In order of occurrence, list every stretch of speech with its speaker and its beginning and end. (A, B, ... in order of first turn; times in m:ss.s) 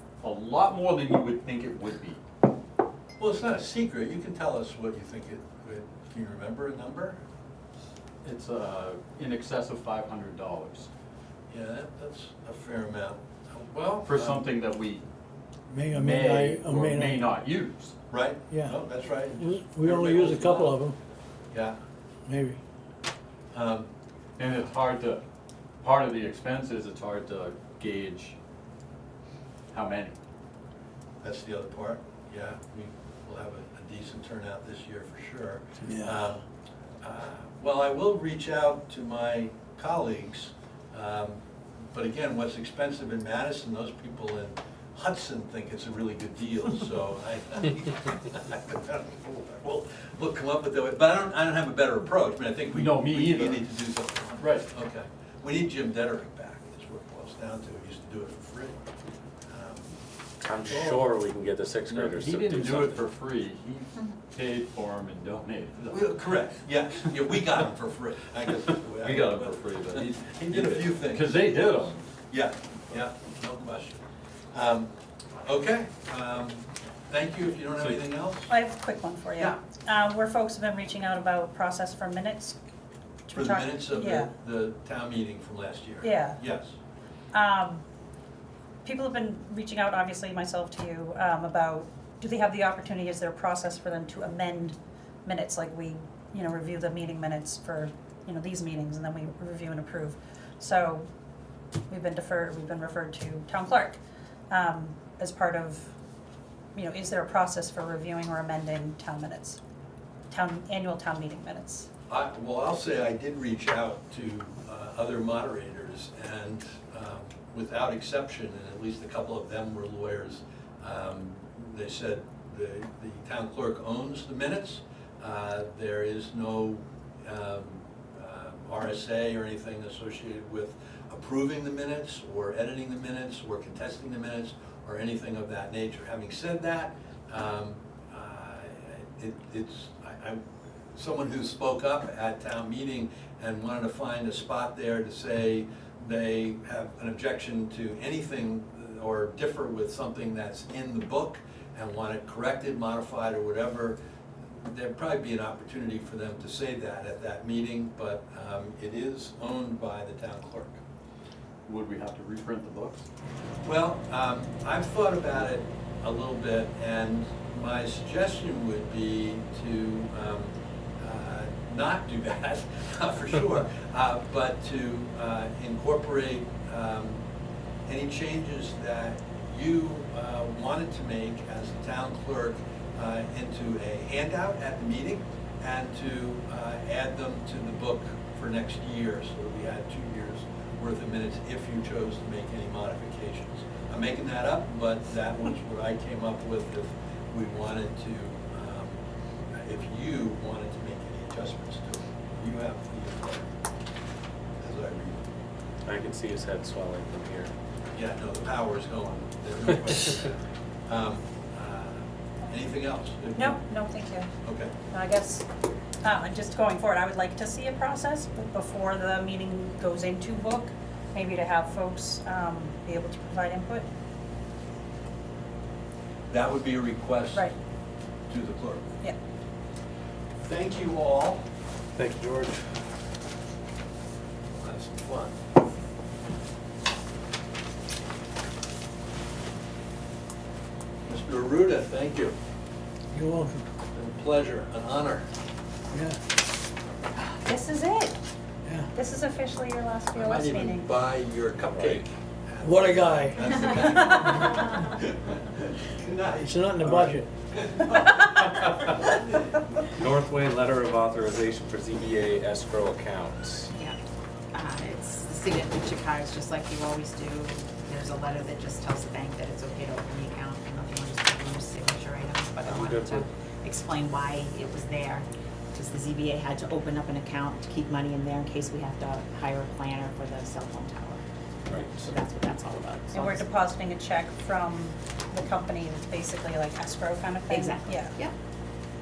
0:00.2-0:02.2 A
0:03.2-0:07.2 B
0:08.2-0:10.9 A
0:11.5-0:14.5 B
0:14.0-0:15.0 A
0:15.7-0:17.3 C
0:15.9-0:17.9 A
0:18.1-0:20.7 B
0:18.5-0:18.8 C
0:19.4-0:21.0 C
0:21.5-0:21.8 B
0:22.3-0:22.6 C
0:23.5-0:23.9 B
0:24.4-0:25.2 A
0:25.8-0:28.4 A
0:29.7-0:30.2 A
0:31.2-0:36.4 B
0:37.0-0:41.4 B
0:41.9-0:58.9 B
0:52.7-0:53.6 A
0:54.4-0:54.7 A
0:59.5-0:59.9 B
1:00.4-1:03.0 D
1:01.9-1:06.5 A
1:05.9-1:11.5 B
1:09.0-1:12.0 A
1:12.3-1:14.0 B
1:14.5-1:14.9 B
1:15.4-1:18.6 B
1:18.5-1:22.6 E
1:23.3-1:24.3 E
1:23.3-1:26.8 B
1:26.0-1:26.4 E
1:27.3-1:27.8 E
1:28.8-1:41.1 E
1:41.9-1:44.0 E
1:44.5-1:45.9 E
1:46.7-1:49.6 E
1:50.3-1:51.9 E
1:52.1-2:20.4 B
2:20.9-2:34.0 B
2:34.5-2:40.8 B
2:41.6-2:43.1 A
2:43.6-2:57.2 B
2:57.8-3:19.0 B
3:19.5-3:23.5 B
3:24.6-3:25.2 B
3:25.8-3:27.5 D
3:27.9-3:30.3 B
3:30.9-3:33.6 B
3:33.4-3:34.3 E
3:34.4-3:34.7 B
3:34.9-3:35.4 E
3:36.0-3:43.9 E
3:46.3-3:47.5 B
3:48.3-3:49.0 B
3:50.4-3:51.4 B
3:52.0-3:52.6 D
3:54.6-3:55.3 B
4:01.0-4:02.4 B
4:03.1-4:03.6 C
4:03.9-4:05.3 B
4:05.9-4:06.2 C
4:07.2-4:08.2 E
4:08.9-4:10.9 E
4:10.1-4:19.7 B
4:11.7-4:12.0 D
4:12.6-4:13.7 C
4:16.4-4:17.3 C
4:20.0-4:23.7 D
4:24.5-4:43.5 F
4:32.6-4:33.3 D
4:41.7-4:42.0 D
4:43.1-4:48.2 E
4:47.5-4:48.3 F